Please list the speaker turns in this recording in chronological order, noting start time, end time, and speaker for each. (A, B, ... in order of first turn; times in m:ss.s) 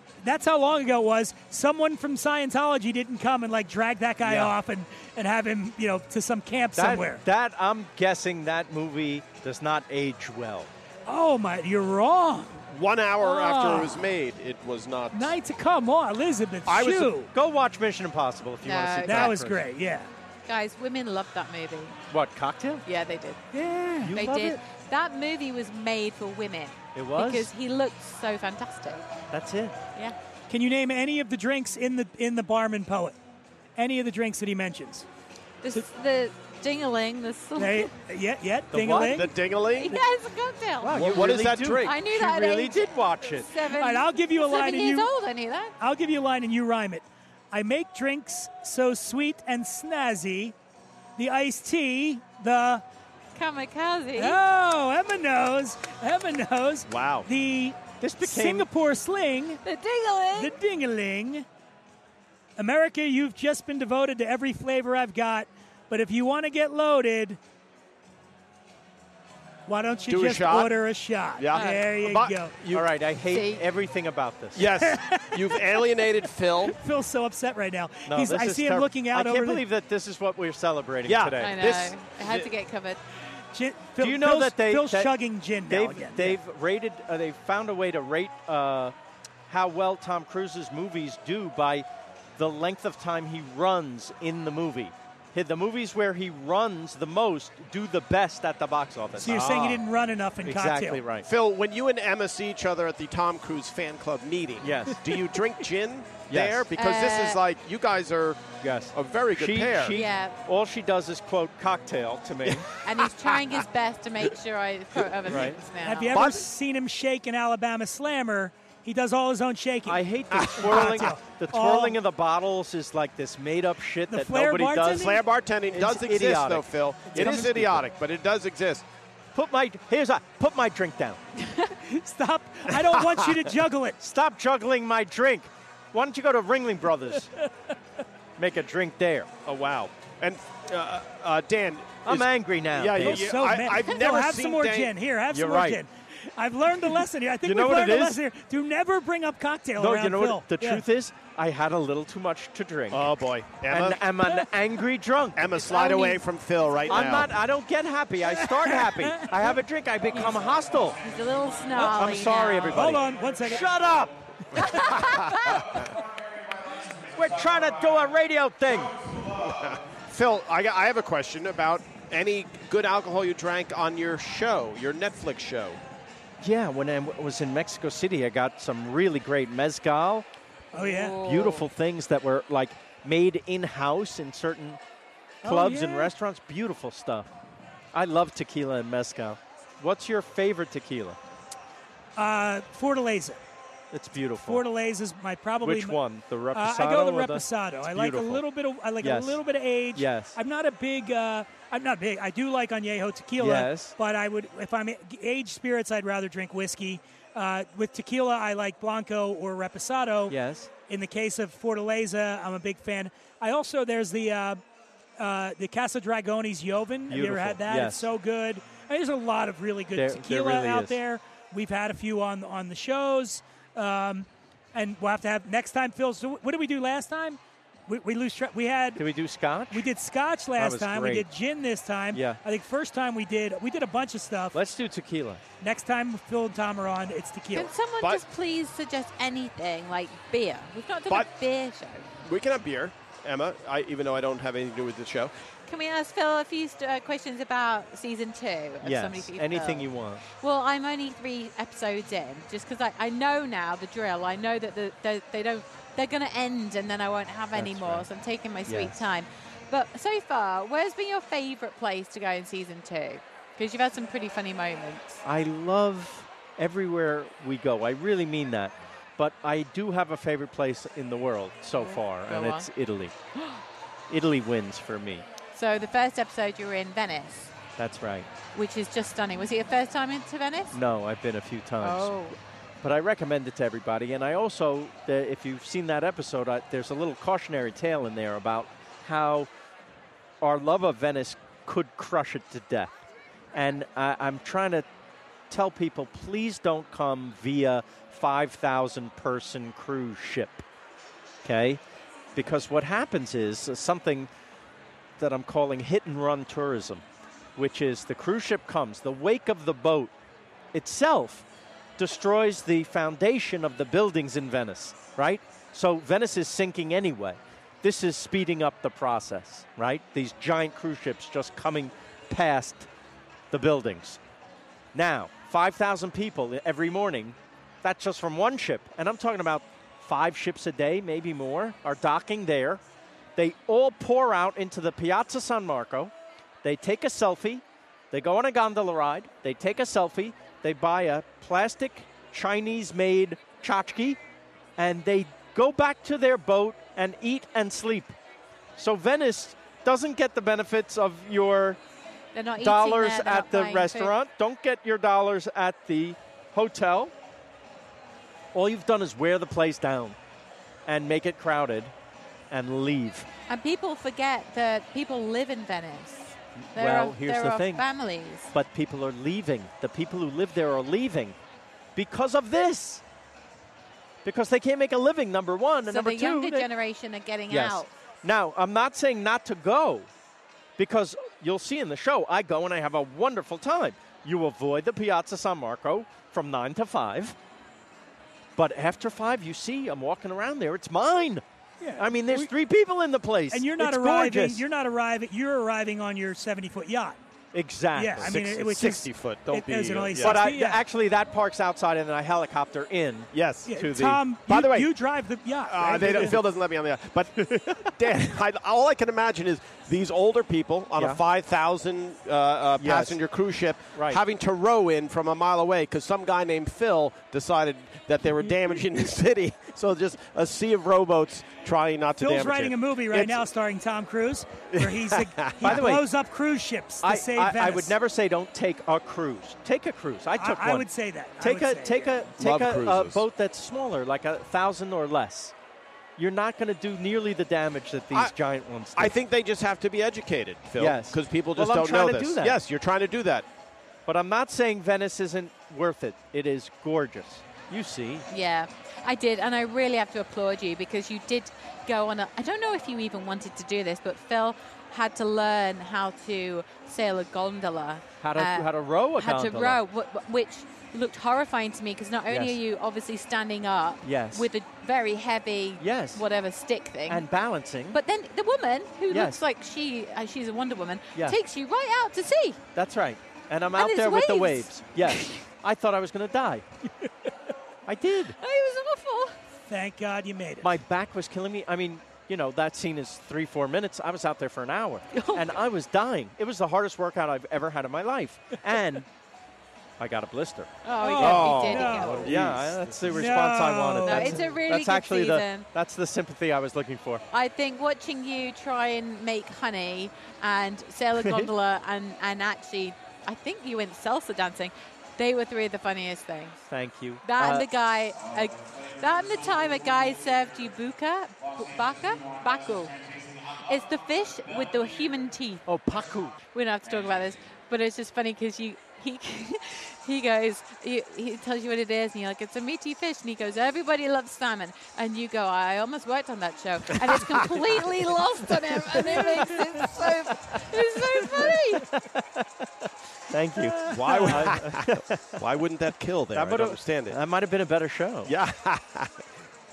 0:00.2-0:07.2 A
0:04.2-0:04.6 B
0:06.8-0:10.7 B
0:11.1-0:12.6 A
0:12.7-0:15.4 C
0:13.2-0:14.0 A
0:15.1-0:17.3 A
0:16.7-0:17.2 C
0:17.3-0:19.6 B
0:18.6-0:19.4 D
0:19.1-0:20.1 A
0:20.5-0:22.0 D
0:22.1-0:22.8 B
0:22.9-0:23.4 D
0:23.5-0:24.2 A
0:23.9-0:24.6 B
0:24.1-0:29.1 D
0:27.0-0:27.5 B
0:29.3-0:29.8 B
0:30.5-0:33.2 A
0:33.8-0:35.1 A
0:35.6-0:37.9 D
0:37.6-0:39.3 A
0:38.7-0:39.3 B
0:39.1-0:40.0 C
0:39.7-0:41.1 D
0:40.8-0:43.5 B
0:40.9-0:41.9 C
0:41.8-0:45.8 D
0:43.7-0:45.1 A
0:45.8-0:50.6 A
0:51.2-0:52.8 A
0:53.4-0:54.4 D
0:54.2-0:59.6 A
0:56.9-0:57.3 C
0:58.0-0:58.7 B
0:59.6-1:00.6 D
1:00.4-1:01.5 A
1:02.6-1:07.4 A
1:09.7-1:12.6 A
1:10.1-1:10.7 C
1:11.4-1:12.9 C
1:11.5-1:11.8 D
1:12.7-1:14.7 B
1:13.3-1:13.6 D
1:14.6-1:16.8 C
1:14.8-1:15.9 A
1:16.6-1:19.6 A
1:18.1-1:21.6 B
1:21.0-1:22.5 C
1:21.4-1:23.0 D
1:23.5-1:26.4 A
1:24.0-1:25.1 B
1:25.7-1:28.9 B
1:29.5-1:31.9 B
1:32.4-1:39.8 B
1:39.2-1:41.0 A
1:39.3-1:39.6 C
1:40.4-1:41.3 B
1:41.2-1:50.0 C
1:44.6-1:45.1 B
1:46.3-1:46.7 B
1:46.8-1:47.4 D
1:48.6-1:52.7 B
1:49.9-1:50.4 D
1:52.8-1:56.2 D
1:55.3-1:55.6 B
1:55.8-2:02.0 A
1:56.1-1:56.5 C
1:59.9-2:07.8 B
2:00.3-2:01.1 C
2:04.1-2:05.2 A
2:04.9-2:08.8 C
2:07.1-2:07.5 A
2:09.3-2:11.2 B
2:11.7-2:14.0 A
2:14.0-2:17.4 B
2:18.4-2:19.3 B
2:19.4-2:24.9 C
2:22.0-2:23.3 B
2:23.0-2:30.8 A
2:25.3-2:25.8 B
2:27.4-2:28.2 B
2:29.8-2:33.1 B
2:32.9-2:34.0 C
2:33.7-2:35.6 B
2:35.4-2:37.4 C
2:35.7-2:36.2 D
2:36.9-2:41.0 B
2:38.2-2:39.6 A
2:41.0-2:43.0 D
2:41.7-2:43.7 A
2:42.0-2:44.2 B
2:44.6-2:45.8 D
2:47.1-2:49.0 B
2:49.3-2:55.8 C
2:56.4-3:00.3 B
3:00.7-3:01.2 A
3:00.8-3:01.7 D
3:01.2-3:04.8 B
3:05.4-3:06.1 A
3:05.4-3:07.3 B
3:07.9-3:11.2 B
3:12.2-3:13.4 A
3:13.9-3:14.6 B
3:14.4-3:16.0 A
3:15.6-3:18.4 B
3:16.5-3:30.4 A
3:19.0-3:19.4 B
3:19.9-3:20.4 B
3:23.4-3:24.0 B
3:30.3-3:30.7 B
3:30.9-3:34.6 A
3:35.2-3:49.0 A
3:37.1-3:38.1 B
3:40.0-3:41.0 B
3:49.0-3:49.9 B
3:49.7-3:54.6 A
3:50.6-3:51.3 B
3:52.1-3:52.4 B
3:54.5-3:55.4 B
3:55.6-3:57.7 A
3:57.5-4:02.1 D
4:02.2-4:05.3 C
4:05.7-4:25.2 D
4:08.8-4:10.2 B
4:17.6-4:18.1 B
4:18.7-4:19.0 B
4:25.2-4:33.1 B
4:31.8-4:32.7 D
4:34.1-4:35.3 B
4:35.5-4:37.5 D
4:37.8-4:38.3 B
4:38.5-4:40.8 D
4:40.7-4:42.2 B
4:41.8-4:42.4 D
4:42.8-4:49.5 B
4:50.4-4:54.8 B
4:55.5-5:00.6 B
5:01.4-5:01.8 B
5:02.4-5:04.3 B
5:05.2-5:07.0 B
5:07.6-5:10.1 B
5:10.7-5:11.4 B
5:12.0-5:22.9 B
5:23.5-5:24.2 B
5:24.9-5:32.8 B
5:33.4-5:36.1 B
5:36.6-5:44.2 B
5:44.8-5:48.2 B
5:48.8-5:51.8 B
5:52.3-5:54.1 D
5:52.6-5:57.1 B
5:58.5-6:00.2 B
6:00.9-6:01.9 B
6:02.5-6:03.3 B
6:03.5-6:08.5 D
6:06.6-6:07.8 B
6:08.5-6:11.4 B
6:12.0-6:13.0 B
6:14.2-6:16.7 B
6:15.9-6:17.9 D
6:17.5-6:20.1 B
6:20.8-6:27.4 B
6:28.6-6:31.4 B
6:31.8-6:32.5 A
6:32.0-6:34.6 B
6:33.5-6:37.2 A
6:37.5-6:38.3 B
6:37.9-6:40.8 A
6:38.2-6:40.4 C
6:40.2-6:44.2 B
6:43.3-6:43.7 C
6:43.7-6:46.4 A
6:44.5-6:44.9 C
6:45.6-7:03.4 C
6:46.0-6:46.4 B
6:52.8-6:53.2 B
6:54.0-6:54.2 B
7:02.2-7:08.0 A
7:04.7-7:05.8 C
7:05.6-7:06.0 B
7:07.0-7:10.9 B
7:10.4-7:12.3 A
7:11.4-7:15.5 B
7:12.4-7:13.2 C
7:16.2-7:19.2 B
7:19.0-7:23.5 C
7:20.8-7:22.6 B
7:24.1-7:28.3 B
7:28.3-7:47.3 D
7:38.2-7:39.8 B
7:42.3-7:42.6 B
7:44.0-7:44.5 B
7:45.8-7:46.2 B
7:47.1-7:48.0 B
7:47.9-7:52.6 D
7:49.1-7:49.4 B
7:52.8-7:56.7 B
7:53.7-7:55.3 D
7:57.9-7:58.4 B
7:58.4-7:59.4 D
7:59.7-8:00.8 A
8:00.6-8:09.1 B
8:05.1-8:05.6 D
8:10.0-8:17.2 B
8:10.8-8:12.4 D
8:11.0-8:12.3 A
8:11.4-8:13.0 C
8:13.0-8:14.4 A
8:14.0-8:15.7 D
8:17.3-8:26.6 D
8:21.2-8:21.5 B
8:26.7-8:27.7 B
8:27.2-8:33.0 D
8:33.5-8:35.6 D
8:35.7-8:36.5 B
8:36.5-8:51.9 D
8:48.8-8:55.4 B
8:53.8-8:57.2 C
8:54.0-8:54.6 A
8:56.3-8:58.3 B
8:58.3-8:59.2 C